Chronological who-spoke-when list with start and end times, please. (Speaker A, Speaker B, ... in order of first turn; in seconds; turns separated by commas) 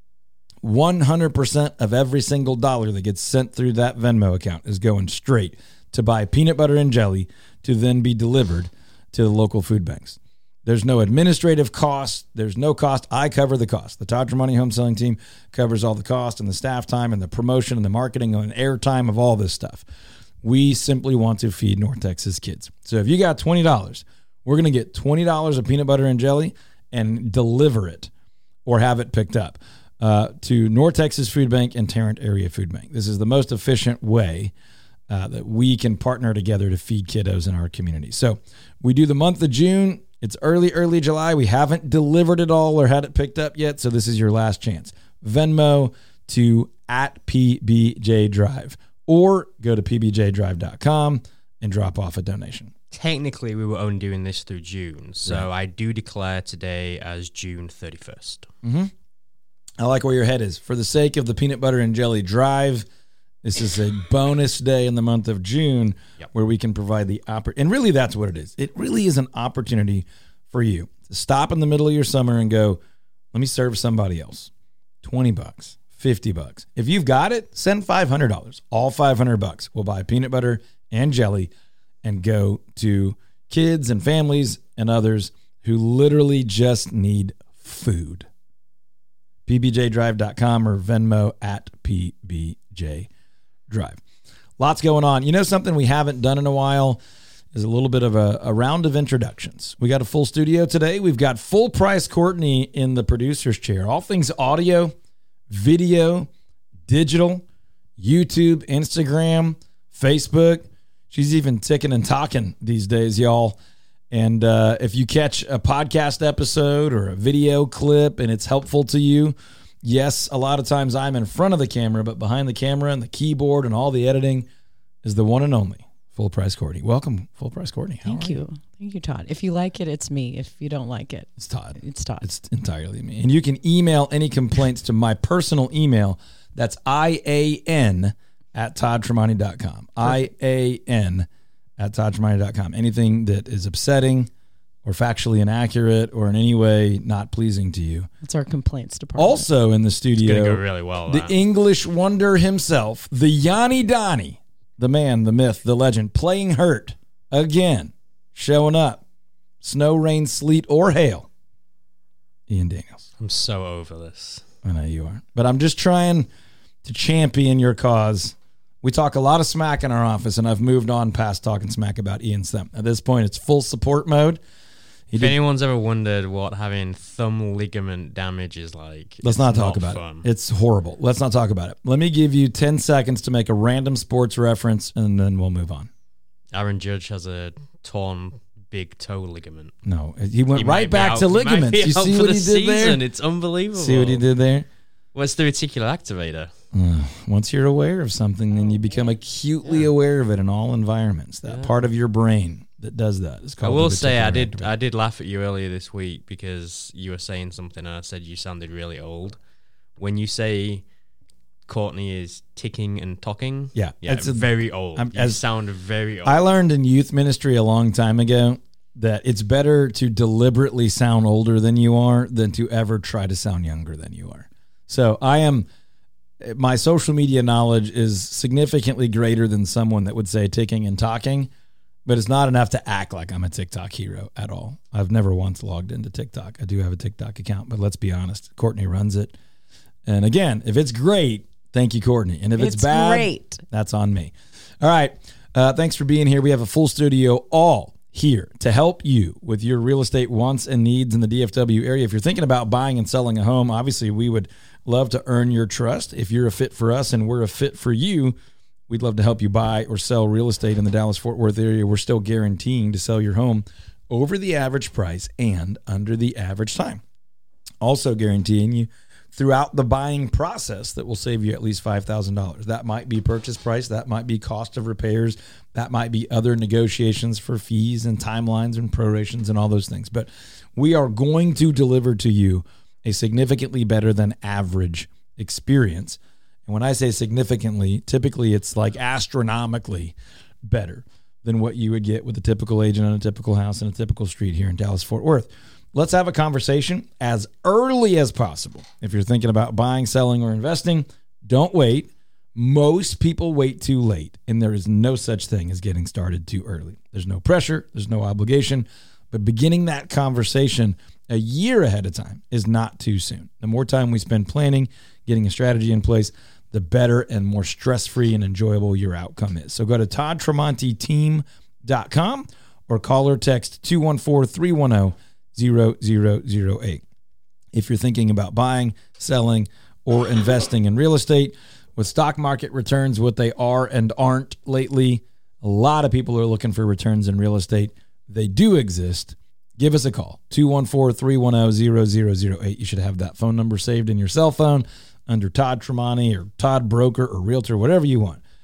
Speaker A: 0.6-19.8, Speaker A: 20.4-28.1, Speaker A: 28.6-34.5, Speaker A: 35.1-52.7, Speaker B: 52.9-58.5, Speaker A: 58.6-58.9, Speaker A: 59.8-62.9, Speaker A: 63.4-72.8, Speaker A: 73.3-74.5, Speaker A: 75.0-81.5, Speaker A: 82.0-88.3, Speaker A: 89.5-93.1, Speaker A: 93.7-94.0, Speaker A: 94.6-97.0, Speaker A: 97.5-104.9, Speaker A: 105.5-106.3, Speaker A: 106.9-107.5, Speaker A: 108.0-113.6, Speaker A: 114.1-124.5, Speaker A: 125.0-128.4, Speaker C: 128.0-132.3, Speaker A: 131.4-144.3, Speaker A: 144.8-148.1, Speaker C: 148.2-149.5, Speaker A: 149.2-159.0, Speaker B: 150.2-151.4, Speaker A: 159.6-161.3, Speaker A: 162.5-163.1, Speaker B: 163.2-164.5, Speaker A: 164.6-166.3, Speaker A: 166.8-174.4, Speaker A: 175.1-175.3, Speaker B: 175.1-180.3, Speaker A: 179.2-185.9, Speaker B: 186.5-189.7, Speaker A: 189.8-193.0, Speaker B: 190.6-194.2, Speaker A: 193.8-194.7, Speaker B: 195.1-196.5, Speaker A: 196.7-204.7, Speaker B: 201.5-201.7, Speaker B: 203.6-209.4, Speaker B: 210.0-210.8, Speaker B: 211.7-216.4, Speaker A: 213.8-215.4, Speaker A: 216.2-225.7, Speaker A: 226.4-231.5, Speaker A: 232.1-239.3, Speaker A: 240.1-258.4, Speaker C: 242.6-243.6, Speaker A: 258.9-267.0, Speaker A: 267.8-327.0, Speaker A: 327.7-348.4